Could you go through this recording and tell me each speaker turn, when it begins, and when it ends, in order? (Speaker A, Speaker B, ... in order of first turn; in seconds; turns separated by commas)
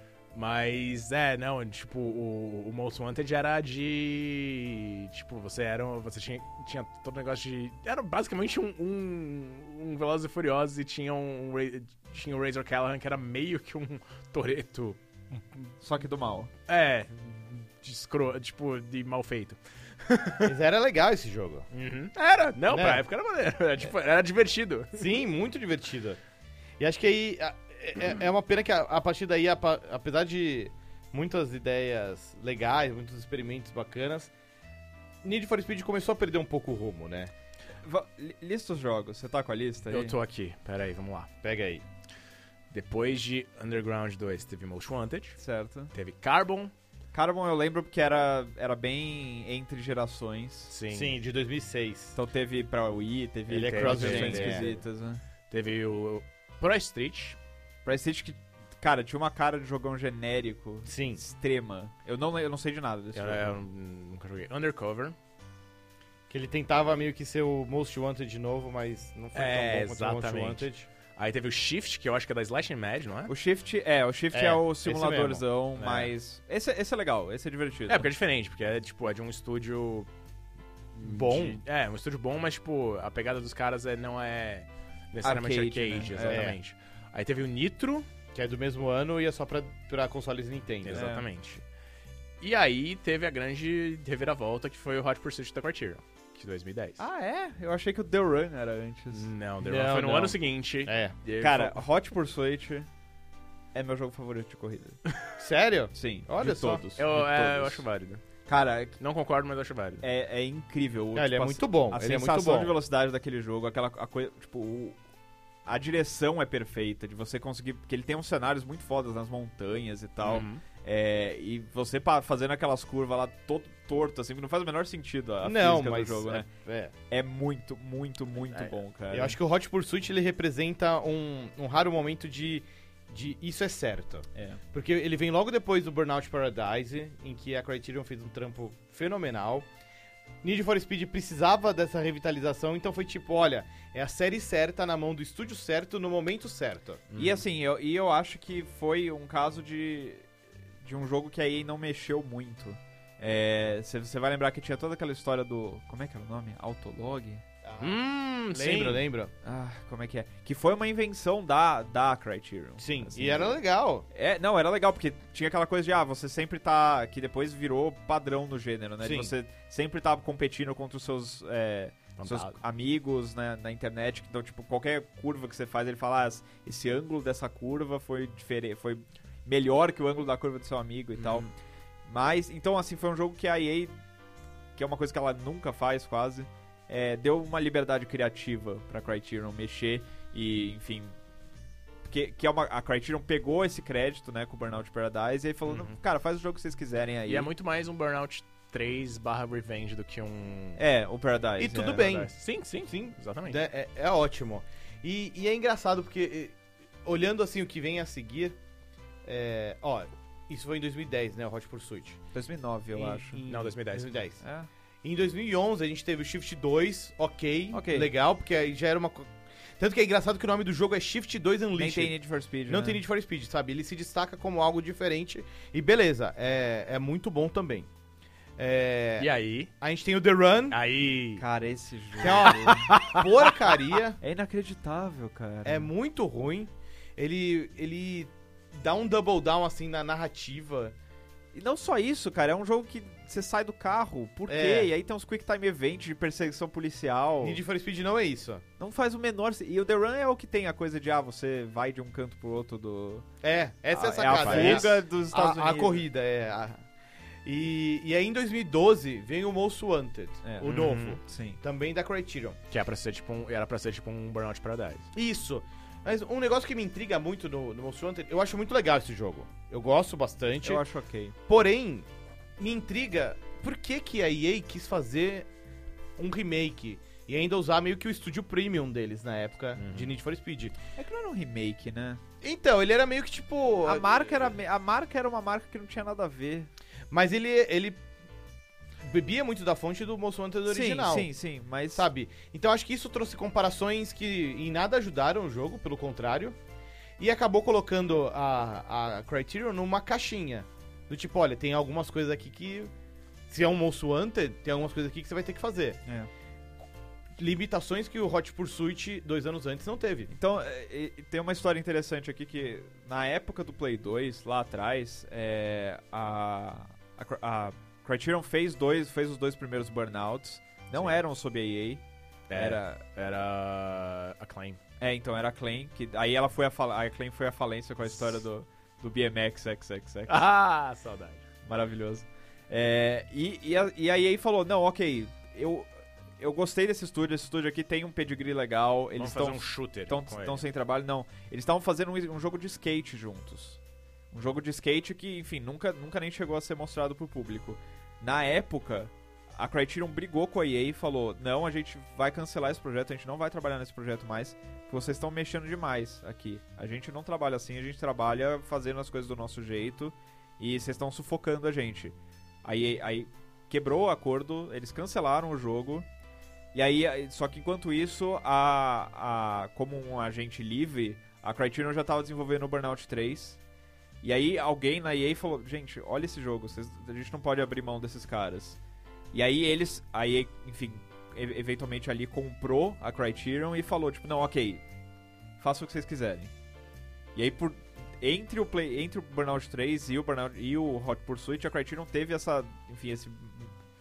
Speaker A: 0.3-15.7, Speaker B: 15.8-16.5, Speaker A: 16.7-20.5, Speaker C: 20.4-21.7, Speaker A: 21.7-25.0, Speaker C: 22.7-23.0, Speaker C: 24.9-26.2, Speaker C: 26.8-34.3, Speaker C: 35.2-37.3, Speaker B: 37.8-40.2, Speaker A: 39.9-41.3, Speaker C: 41.4-41.8, Speaker A: 42.7-45.4, Speaker B: 45.4-45.9, Speaker A: 45.9-46.7, Speaker B: 47.1-50.7, Speaker A: 50.7-51.1, Speaker C: 50.9-52.1, Speaker B: 52.1-55.2, Speaker C: 53.5-54.7, Speaker A: 53.6-54.8, Speaker A: 55.5-57.4, Speaker B: 57.8-63.5, Speaker C: 60.9-61.2, Speaker A: 63.1-65.1, Speaker C: 66.3-70.9, Speaker A: 69.3-73.3, Speaker B: 73.3-78.1, Speaker C: 74.3-75.4, Speaker A: 75.8-76.1, Speaker A: 77.9-80.1, Speaker A: 80.9-88.1, Speaker C: 81.0-81.6, Speaker B: 85.2-86.5, Speaker C: 86.2-86.6, Speaker C: 88.3-91.1, Speaker A: 90.8-91.6, Speaker B: 90.9-91.2, Speaker A: 92.4-97.0, Speaker B: 97.0-99.3, Speaker A: 99.1-101.8, Speaker C: 99.6-101.1, Speaker B: 101.4-102.9, Speaker B: 103.7-105.0, Speaker C: 105.4-107.0, Speaker B: 105.9-107.8, Speaker A: 107.0-108.2, Speaker B: 108.5-109.0, Speaker A: 109.0-110.0, Speaker B: 110.0-115.0, Speaker C: 111.1-112.7, Speaker B: 115.6-126.5, Speaker A: 120.2-120.6, Speaker C: 125.4-126.9, Speaker B: 127.1-129.4, Speaker C: 128.5-139.7, Speaker B: 134.3-134.6, Speaker C: 140.4-147.0, Speaker A: 147.1-147.4, Speaker B: 147.2-150.3, Speaker B: 150.8-157.4, Speaker C: 157.6-158.0, Speaker A: 157.8-159.0, Speaker C: 158.5-159.3, Speaker B: 159.4-163.6, Speaker C: 162.8-164.1, Speaker B: 164.1-181.5, Speaker C: 169.0-169.3, Speaker A: 172.2-172.6, Speaker A: 181.2-181.5, Speaker B: 182.1-183.9, Speaker B: 184.8-191.2, Speaker B: 192.0-197.5, Speaker A: 195.7-196.0, Speaker A: 197.3-200.8, Speaker B: 200.8-202.3, Speaker C: 201.6-202.3, Speaker A: 202.2-203.6, Speaker C: 202.8-208.6, Speaker C: 209.2-212.2, Speaker B: 212.3-213.4, Speaker C: 212.9-214.4, Speaker A: 213.5-214.1, Speaker B: 214.4-214.7, Speaker C: 215.0-222.1, Speaker B: 217.7-218.1, Speaker B: 221.8-223.0, Speaker C: 222.7-227.9, Speaker C: 228.6-229.3, Speaker A: 229.2-229.7, Speaker C: 229.8-230.8, Speaker A: 230.7-231.4, Speaker B: 231.4-232.9, Speaker C: 232.2-234.2, Speaker A: 232.2-233.3, Speaker B: 234.2-235.9, Speaker C: 235.6-240.9, Speaker B: 241.5-247.6, Speaker C: 244.5-244.9, Speaker C: 247.4-248.6, Speaker B: 248.8-253.3, Speaker C: 253.4-256.8, Speaker B: 253.9-256.0, Speaker A: 254.3-254.9, Speaker C: 257.4-262.6, Speaker B: 260.4-261.6, Speaker A: 260.6-261.2, Speaker A: 262.7-265.1, Speaker C: 265.1-270.8, Speaker B: 270.6-271.4, Speaker C: 271.5-272.1, Speaker C: 272.6-275.5, Speaker C: 276.2-280.8, Speaker A: 279.8-280.1, Speaker B: 281.0-282.2, Speaker C: 282.4-284.4, Speaker B: 283.9-286.7, Speaker C: 287.1-288.0, Speaker C: 289.0-291.3, Speaker B: 290.7-292.1, Speaker C: 291.9-296.6, Speaker C: 297.2-302.9, Speaker C: 303.5-306.0, Speaker C: 307.4-310.3, Speaker B: 310.3-323.0, Speaker A: 320.9-321.2, Speaker A: 322.5-324.8, Speaker B: 325.0-330.4, Speaker A: 330.3-331.4, Speaker B: 331.6-343.8, Speaker A: 339.2-340.6, Speaker B: 344.3-366.1, Speaker B: 366.7-373.6, Speaker B: 374.2-378.8, Speaker B: 379.3-384.8, Speaker B: 385.6-386.5, Speaker B: 387.3-393.8